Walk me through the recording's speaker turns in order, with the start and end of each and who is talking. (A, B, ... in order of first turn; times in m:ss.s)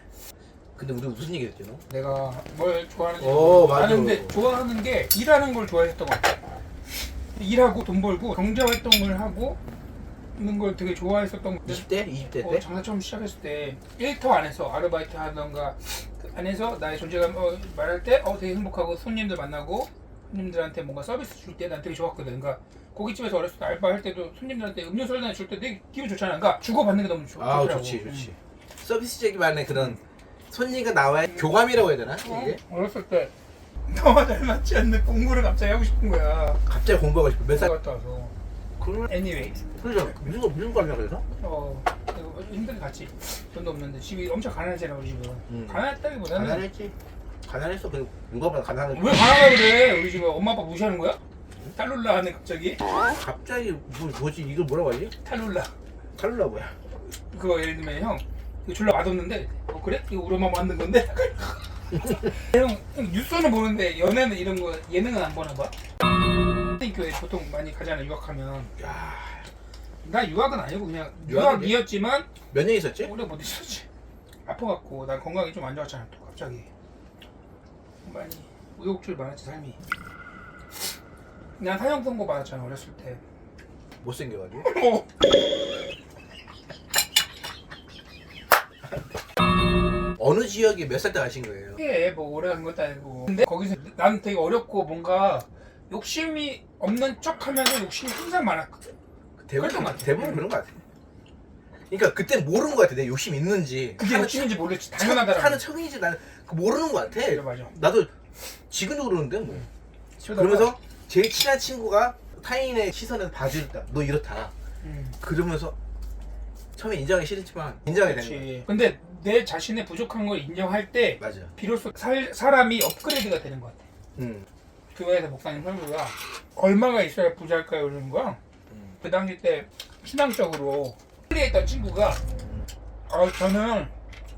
0:00.8-0:01.8 A
0:01.9-0:06.4 B
0:03.2-0:04.4 A
0:07.3-0:09.6 B
0:10.4-0:28.3 B
0:11.6-0:12.6 A
0:27.4-0:30.0 A
0:30.5-0:32.6 A
0:32.2-0:33.3 B
0:33.9-0:36.6 B
0:36.6-0:37.7 A
0:37.5-0:38.3 B
0:38.8-0:41.2 A
0:39.1-0:39.6 B
0:41.4-0:46.7 B
0:45.5-0:46.9 A
0:47.4-0:49.3 A
0:48.9-0:51.2 B
0:51.8-0:52.8 B
0:53.1-0:55.1 A
0:55.2-0:55.7 B
0:56.2-0:56.7 A
0:57.2-1:05.7 B
1:06.8-1:08.7 B
1:08.8-1:09.4 A
1:10.0-1:12.3 B
1:11.2-1:11.8 A
1:12.5-1:13.1 A
1:13.0-1:13.8 B
1:14.4-1:16.7 B
1:18.0-1:19.8 B
1:21.6-1:23.2 B
1:24.0-1:24.7 A
1:24.6-1:25.1 B
1:30.2-1:31.8 A
1:31.8-1:38.9 B
1:39.4-1:40.8 A
1:39.6-1:40.5 B
1:41.9-1:48.1 A
1:44.0-1:45.6 B
1:47.1-1:47.7 B
1:48.7-1:49.7 A
1:50.2-1:50.7 B
1:50.3-1:54.5 A
1:54.8-1:55.2 B
1:55.2-1:55.8 A
1:56.8-1:58.5 A
1:58.0-2:03.8 B
2:01.2-2:01.5 A
2:04.2-2:04.5 A
2:04.9-2:08.4 B
2:08.7-2:09.0 A
2:09.0-2:12.2 B
2:13.1-2:13.9 B